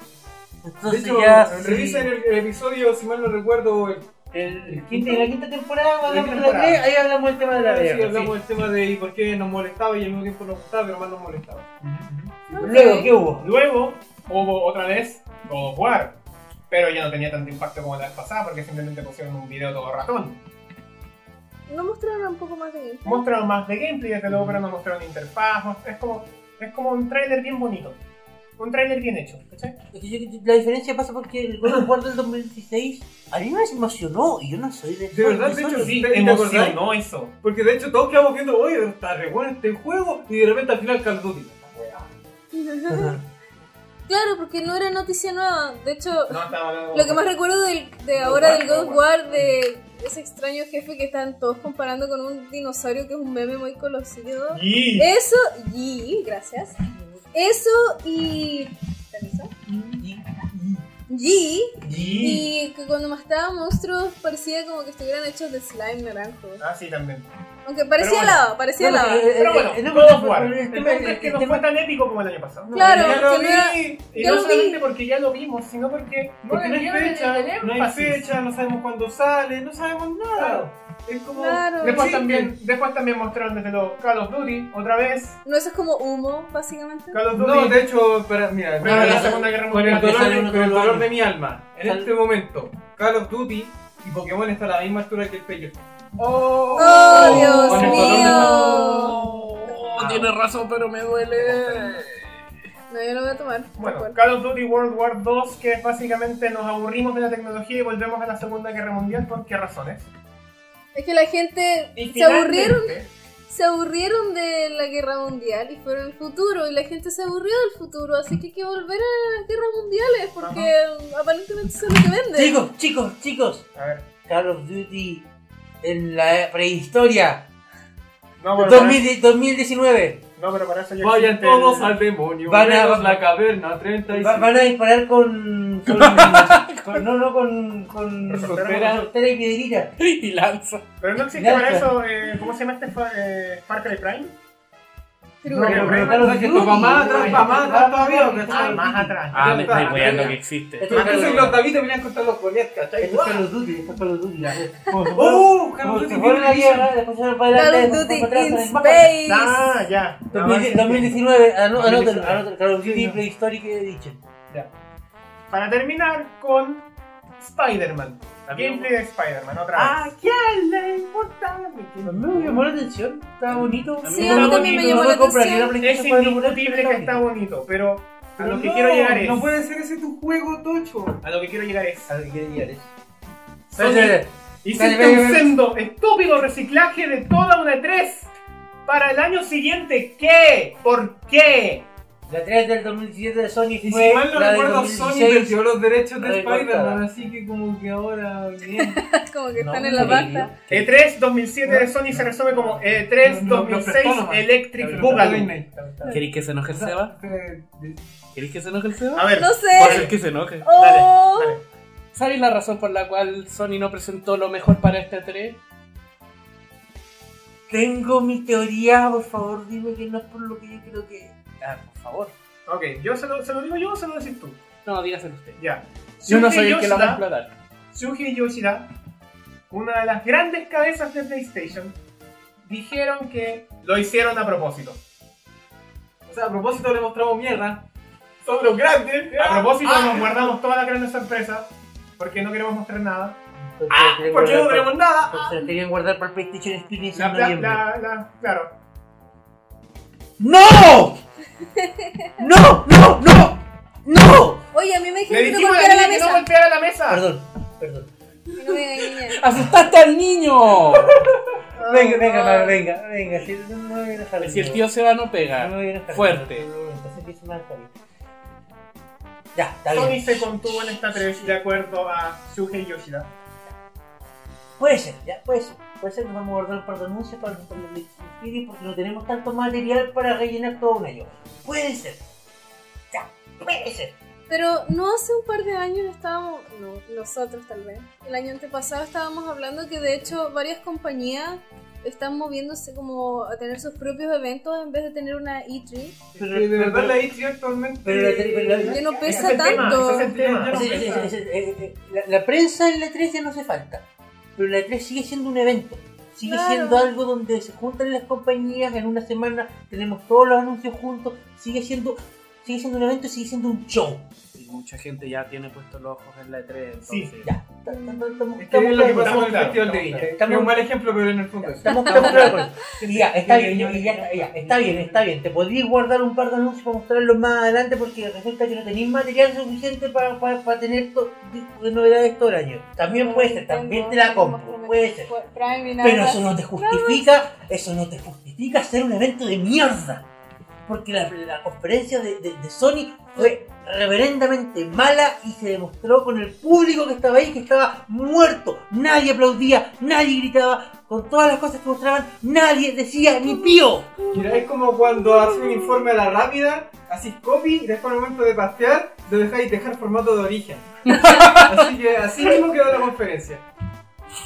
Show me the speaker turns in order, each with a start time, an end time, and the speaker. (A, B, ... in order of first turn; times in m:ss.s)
0:00.6-0:02.1 A
0:00.8-0:04.1 B
0:04.3-0:08.4 A
0:04.7-0:05.3 B
0:06.1-0:06.5 B
0:06.1-0:06.8 C
0:07.4-0:11.7 B
0:11.8-0:12.4 C
0:12.5-0:13.2 B
0:12.5-0:13.1 D
0:12.6-0:13.5 A
0:13.3-0:16.2 C
0:16.7-0:20.4 C
0:21.7-0:23.2 D
0:23.0-0:28.0 C
0:24.3-0:24.6 A
0:28.6-0:29.8 C
0:29.9-0:36.0 A
0:35.1-0:36.8 B
0:35.8-0:37.4 C
0:37.4-0:42.1 B
0:42.5-0:43.2 D
0:42.9-0:43.2 A
0:44.1-0:56.8 D
0:46.3-0:47.3 C
0:48.2-0:49.4 C
0:54.5-0:55.1 C
0:57.3-0:59.5 D
0:59.9-1:00.9 A
1:01.1-1:06.6 D
1:01.8-1:02.4 A
1:01.9-1:02.5 C
1:06.6-1:07.3 C
1:07.6-1:09.6 D
1:08.0-1:08.5 C
1:08.8-1:11.7 A
1:09.3-1:13.3 C
1:12.7-1:13.2 A
1:12.7-1:14.9 D
1:12.8-1:14.1 B
1:14.0-1:18.3 C
1:16.4-1:22.5 B
1:20.4-1:20.7 A
1:21.4-1:22.1 D
1:21.8-1:25.4 C
1:25.4-1:27.2 D
1:27.1-1:27.9 C
1:27.3-1:39.1 B
1:28.8-1:30.4 C
1:28.8-1:31.2 A
1:31.8-1:32.1 A
1:36.8-1:39.2 D
1:37.0-1:42.3 E
1:37.1-1:39.4 C
1:37.6-1:38.4 A
1:40.0-1:40.4 C
1:41.4-1:42.0 C
1:42.9-1:44.2 D
1:43.8-1:50.1 C
1:51.0-2:02.6 D
1:52.0-1:53.1 C
2:00.4-2:00.7 C
2:02.4-2:03.7 A
2:03.8-2:04.1 C
2:04.3-2:05.3 A
2:05.8-2:07.5 A
2:08.4-2:09.1 C
2:08.6-2:10.2 A
2:10.4-2:12.0 C
2:11.0-2:14.5 B
2:12.5-2:13.2 A
2:14.1-2:19.9 A
2:15.9-2:17.1 E
2:18.3-2:19.1 C
2:18.3-2:19.0 E
2:20.0-2:20.8 E
2:21.0-2:24.3 C
2:21.3-2:22.0 A
2:25.4-2:26.1 D
2:25.5-2:29.2 A
2:25.6-2:27.7 C
2:25.6-2:33.5 B
2:28.5-2:30.4 C
2:29.3-2:31.0 E
2:30.8-2:31.6 A
2:30.9-2:31.6 C
2:33.0-2:39.1 A
2:35.1-2:36.9 B
2:37.5-2:39.8 D
2:38.7-2:41.2 C
2:40.3-2:44.2 A
2:41.8-2:42.1 B
2:42.0-2:42.4 C
2:42.8-2:43.2 B
2:45.5-2:46.9 C
2:47.4-2:50.0 C
2:48.5-2:48.9 E
2:49.8-2:50.1 A
2:49.8-2:52.7 B
2:52.0-2:57.3 A
2:53.5-2:54.8 E
2:54.1-2:55.8 D
2:54.2-2:55.1 C
2:55.8-2:59.5 C
2:58.4-3:01.2 B
3:01.2-3:02.1 C
3:02.1-3:02.9 A
3:03.7-3:08.3 C
3:03.8-3:05.6 A
3:08.9-3:11.9 C
3:12.3-3:15.6 A
3:13.8-3:19.0 B
3:16.2-3:17.1 A
3:18.7-3:20.6 D
3:19.6-3:20.5 A
3:19.9-3:20.4 B
3:20.7-3:20.9 E
3:20.7-3:26.2 C
3:21.6-3:26.1 B
3:25.0-3:25.4 A
3:26.1-3:27.2 E
3:26.7-3:28.0 B
3:28.3-3:30.7 E
3:29.2-3:30.2 C
3:29.4-3:31.6 D
3:30.8-3:31.6 C
3:32.1-3:35.6 E
3:37.7-3:41.3 A
3:41.6-3:42.3 E
3:42.7-3:44.6 C
3:44.8-3:45.6 E
3:45.6-3:47.2 C
3:46.2-3:47.5 E
3:47.9-3:48.9 C
3:49.7-3:52.0 C
3:52.6-3:55.0 C
3:56.3-3:57.8 B
3:58.4-4:00.6 B
3:59.3-4:03.4 C
4:03.6-4:07.8 A
4:04.0-4:05.5 B
4:07.1-4:08.7 C
4:10.4-4:11.2 A
4:11.6-4:12.4 D
4:12.4-4:14.6 A
4:14.7-4:16.5 D
4:15.3-4:17.2 C
4:17.1-4:18.1 A
4:18.6-4:19.4 D
4:18.8-4:21.3 E
4:21.7-4:22.8 C
4:21.8-4:24.9 A
4:24.4-4:26.7 E
4:25.6-4:27.9 A
4:29.6-4:31.6 A
4:29.9-4:33.3 C
4:34.8-4:42.2 A
4:43.1-4:44.2 A
4:44.5-4:56.2 D
4:56.4-5:01.3 B
4:56.4-4:57.2 A
4:58.0-4:59.7 A
4:58.9-5:00.3 D
4:59.0-5:01.2 C
5:00.7-5:04.0 A
5:04.6-5:14.3 A
5:06.5-5:07.1 D
5:14.6-5:17.5 E
5:17.1-5:17.3 C
5:17.4-5:20.9 A
5:17.9-5:18.5 D
5:18.6-5:25.3 B
5:19.0-5:20.3 C
5:21.6-5:35.3 A
5:21.9-5:22.8 D
5:33.1-5:37.2 D
5:36.0-5:40.3 A
5:40.9-5:54.3 A
5:54.3-6:03.6 B
6:01.1-6:01.9 E